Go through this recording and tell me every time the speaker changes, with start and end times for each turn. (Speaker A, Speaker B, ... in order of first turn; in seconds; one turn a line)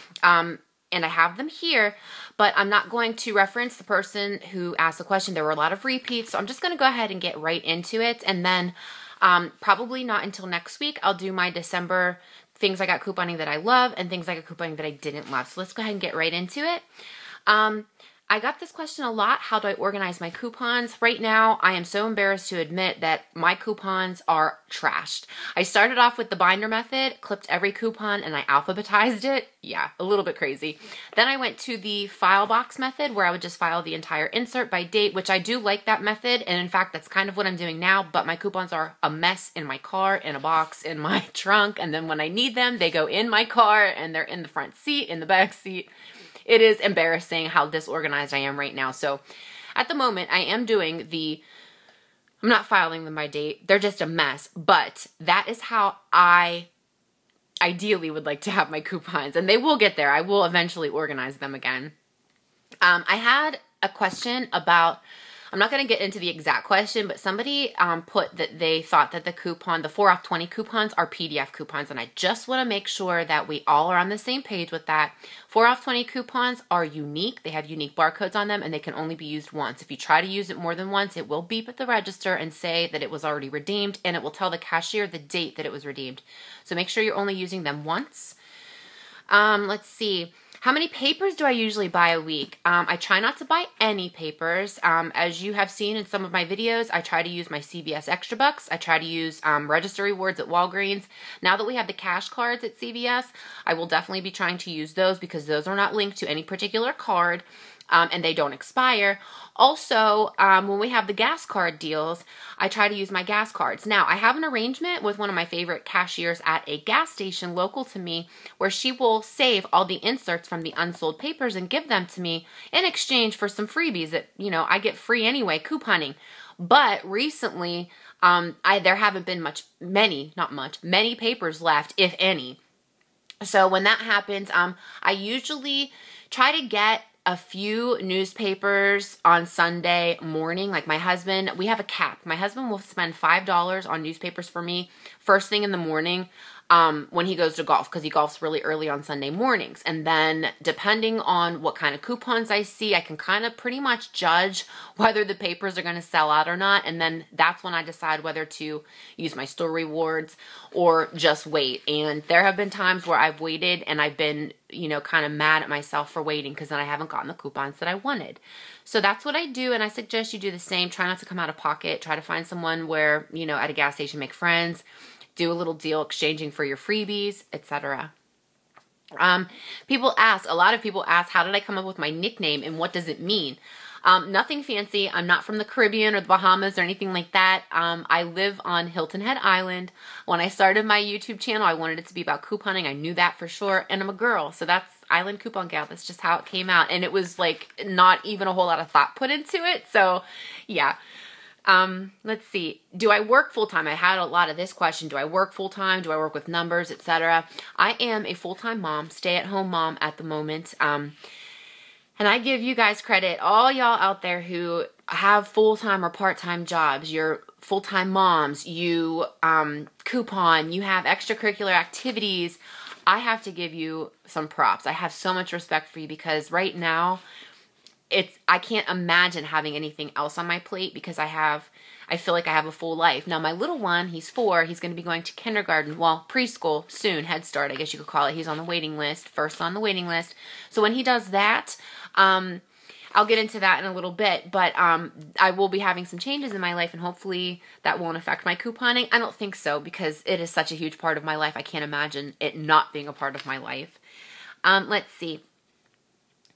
Speaker A: 0.2-16.9
Speaker A: 17.5-45.9
Speaker A: 46.5-49.2
Speaker A: 49.8-51.4
Speaker A: 52.4-56.7
Speaker A: 57.6-61.9
Speaker A: 62.8-88.4
Speaker A: 89.3-132.6
Speaker A: 133.4-174.8
Speaker A: 175.3-178.1
Speaker A: 179.2-200.9
Speaker A: 201.7-211.2
Speaker A: 212.2-227.2
Speaker A: 228.1-242.6
Speaker A: 243.1-254.0
Speaker A: 254.6-255.4